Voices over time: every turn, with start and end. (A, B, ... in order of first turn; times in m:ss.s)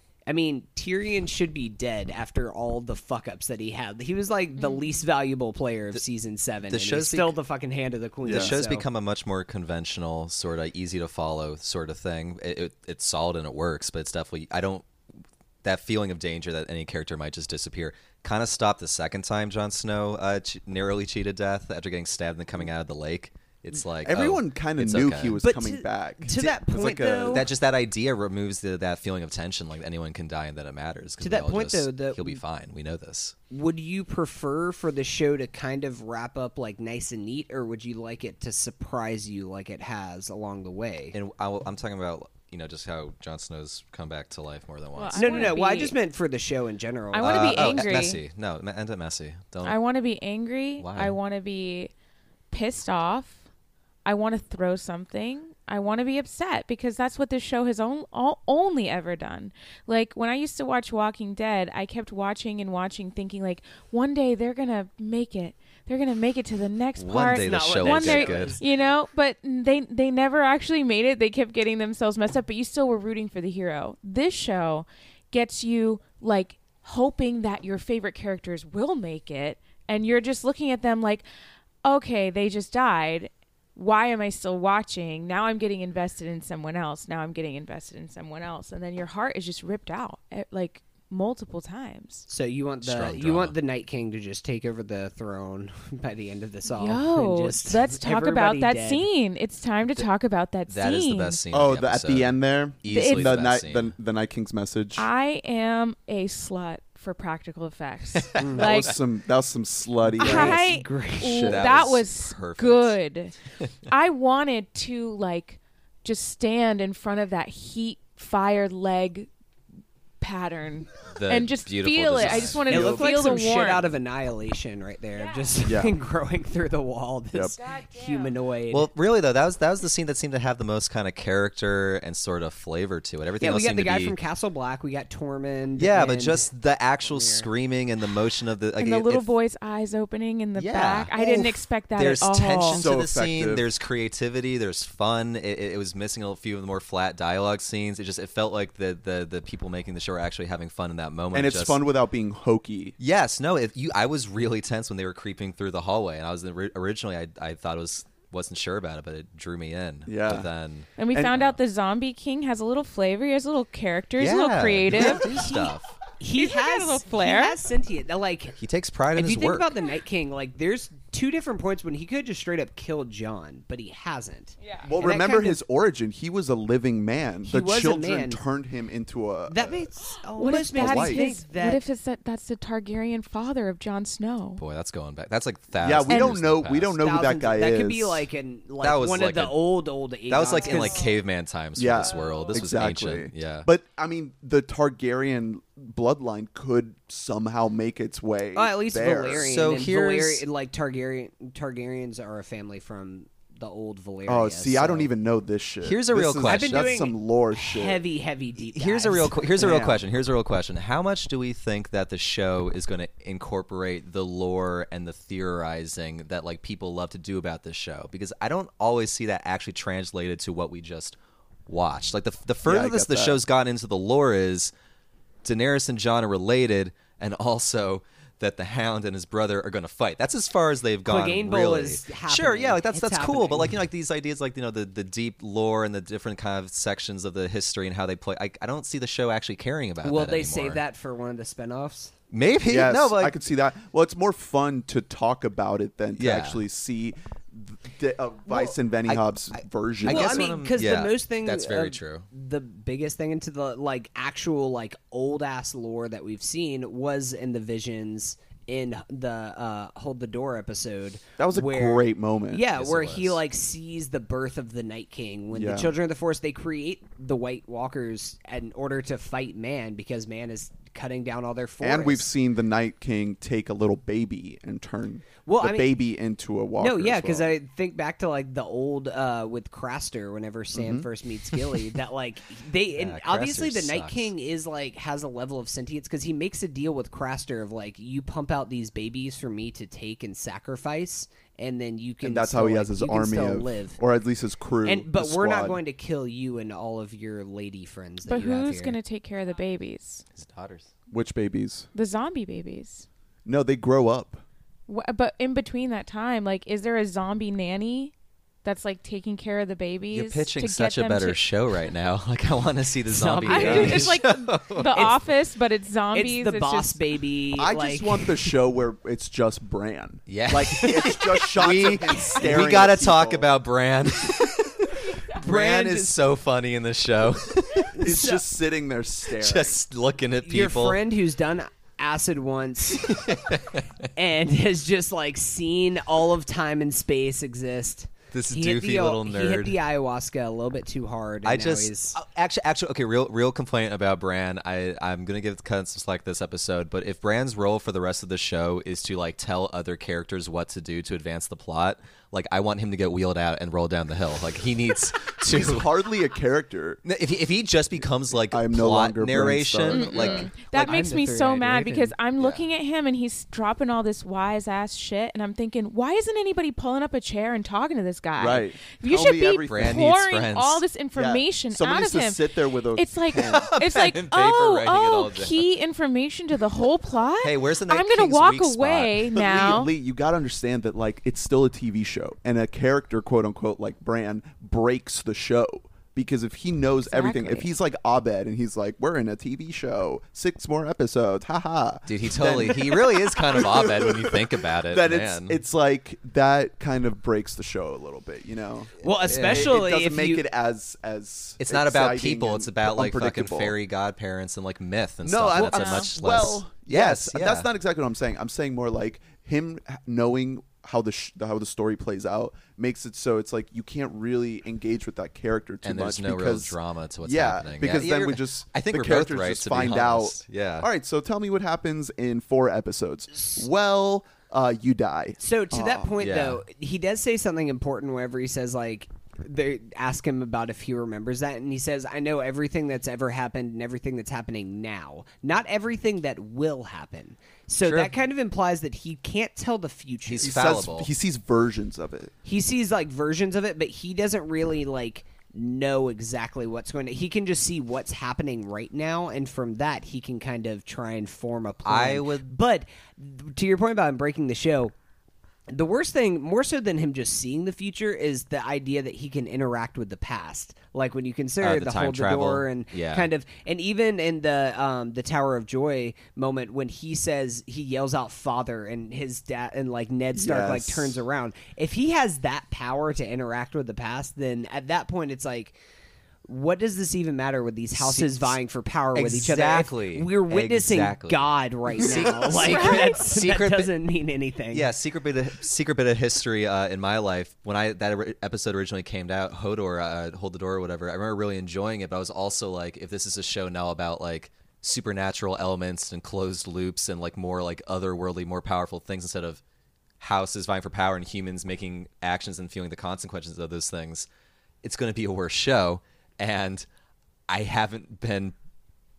0:00.3-0:08.8 A
0:04.6-0:05.0 B
0:06.7-0:07.4 C
0:08.2-0:08.6 D
0:08.2-0:14.9 C
0:15.6-0:25.4 C
0:24.0-0:27.4 D
0:25.4-0:27.5 A
0:27.3-0:33.4 C
0:31.2-0:32.4 A
0:33.5-0:41.2 A
0:41.1-0:45.6 C
0:44.9-0:46.0 B
0:45.1-0:48.1 A
0:47.1-0:48.2 B
0:47.2-0:49.8 C
0:49.6-0:51.9 B
0:50.8-0:51.2 C
0:52.5-0:53.4 B
0:54.0-1:21.2 B
1:07.0-1:08.6 C
1:07.3-1:08.7 A
1:21.8-1:32.3 B
1:32.3-1:39.1 A
1:32.8-1:33.6 C
1:36.7-1:41.4 B
1:40.7-1:43.9 C
1:41.5-1:45.1 D
1:42.9-1:43.4 B
1:45.0-1:48.9 B
1:48.1-1:48.9 C
1:48.4-1:48.7 A
1:48.4-1:50.7 D
1:50.2-1:51.6 A
1:50.2-1:59.3 B
1:51.4-1:53.0 C
2:00.2-2:03.9 B
2:01.1-2:02.8 C
2:02.2-2:03.4 D
2:02.6-2:08.9 A
2:05.2-2:05.5 B
2:05.6-2:05.9 D
2:07.6-2:08.3 B
2:08.7-2:14.2 C
2:13.4-2:16.5 A
2:15.8-2:19.3 C
2:17.0-2:17.5 A
2:18.8-2:22.8 B
2:20.6-2:21.1 C
2:21.2-2:21.5 D
2:21.9-2:31.8 C
2:22.7-2:23.6 D
2:31.3-2:33.0 D
2:33.0-2:41.6 C
2:40.1-2:40.5 D
2:41.0-2:45.5 B
2:44.2-2:45.9 C
2:45.3-2:45.7 A
2:46.2-2:48.6 A
2:46.3-2:47.6 B
2:48.6-2:49.8 C
2:49.1-2:55.6 A
2:54.8-2:59.9 D
2:57.4-2:58.4 A
2:59.5-3:01.8 A
3:00.4-3:04.6 B
3:00.7-3:01.2 D
3:04.6-3:07.0 C
3:05.8-3:08.2 D
3:06.1-3:06.4 B
3:07.0-3:11.1 A
3:08.8-3:09.6 C
3:10.3-3:13.7 C
3:11.8-3:19.4 D
3:18.5-3:25.1 A
3:19.3-3:20.4 C
3:24.2-3:28.0 D
3:25.8-3:27.0 C
3:26.4-3:29.9 A
3:28.7-3:44.7 C
3:29.6-3:30.0 D
3:42.6-3:43.4 D
3:45.4-4:00.8 C
3:51.1-3:53.8 A
4:00.0-4:02.1 A
4:02.3-4:03.4 C
4:02.7-4:10.5 D
4:06.2-4:06.6 C
4:09.0-4:12.3 C
4:10.0-4:32.2 A
4:21.4-4:22.6 D
4:22.7-4:23.4 C
4:25.5-4:25.9 D
4:31.8-4:37.5 D
4:35.4-4:35.9 A
4:36.8-4:54.0 A
4:40.7-4:41.1 D
4:42.9-4:44.3 C
4:52.2-4:55.8 D
4:54.8-4:59.0 A
4:58.3-5:00.2 B
5:00.3-5:00.9 C
5:01.1-5:01.9 D
5:01.9-5:03.0 B
5:03.4-5:04.4 D
5:04.9-5:11.4 B
5:10.1-5:15.2 C
5:13.1-5:14.2 A
5:13.4-5:17.0 B
5:14.8-5:15.2 A
5:16.1-5:18.5 A
5:17.6-5:23.5 D
5:20.3-5:28.2 C
5:25.3-5:26.2 A
5:27.9-5:29.8 D
5:28.0-5:28.4 A
5:29.3-5:31.0 C
5:30.4-5:33.4 A
5:32.9-5:34.0 C
5:34.2-5:42.2 A
5:38.3-5:39.8 C
5:41.4-5:55.9 C
5:55.4-5:57.0 D
5:57.0-6:00.5 C
5:58.5-6:00.5 D
5:59.9-6:19.9 B
6:00.6-6:02.1 A
6:02.4-6:02.6 C
6:08.4-6:10.1 D
6:09.6-6:10.8 C
6:11.1-6:13.7 D
6:13.3-6:15.6 C
6:17.4-6:19.3 C
6:19.3-6:43.8 D
6:27.0-6:27.7 B
6:32.0-6:35.6 C
6:39.0-6:40.4 A
6:39.0-6:39.7 C
6:41.6-6:47.7 C
6:45.2-7:06.1 D
6:45.6-6:46.1 B
6:55.8-7:00.9 C
7:05.4-7:20.6 A
7:06.2-7:06.6 C
7:17.8-7:18.1 C
7:20.2-7:21.1 C
7:20.4-7:22.3 D
7:22.4-7:34.9 A
7:31.8-7:32.5 C
7:35.7-7:55.7 A
7:41.6-7:43.3 C
7:50.3-7:51.2 D
7:56.4-8:04.9 A
7:57.9-7:58.6 C
7:59.1-8:03.9 C
8:02.6-8:03.2 B
8:04.7-8:19.6 C
8:20.2-8:24.3 C
8:24.8-8:26.8 C
8:27.5-8:28.5 C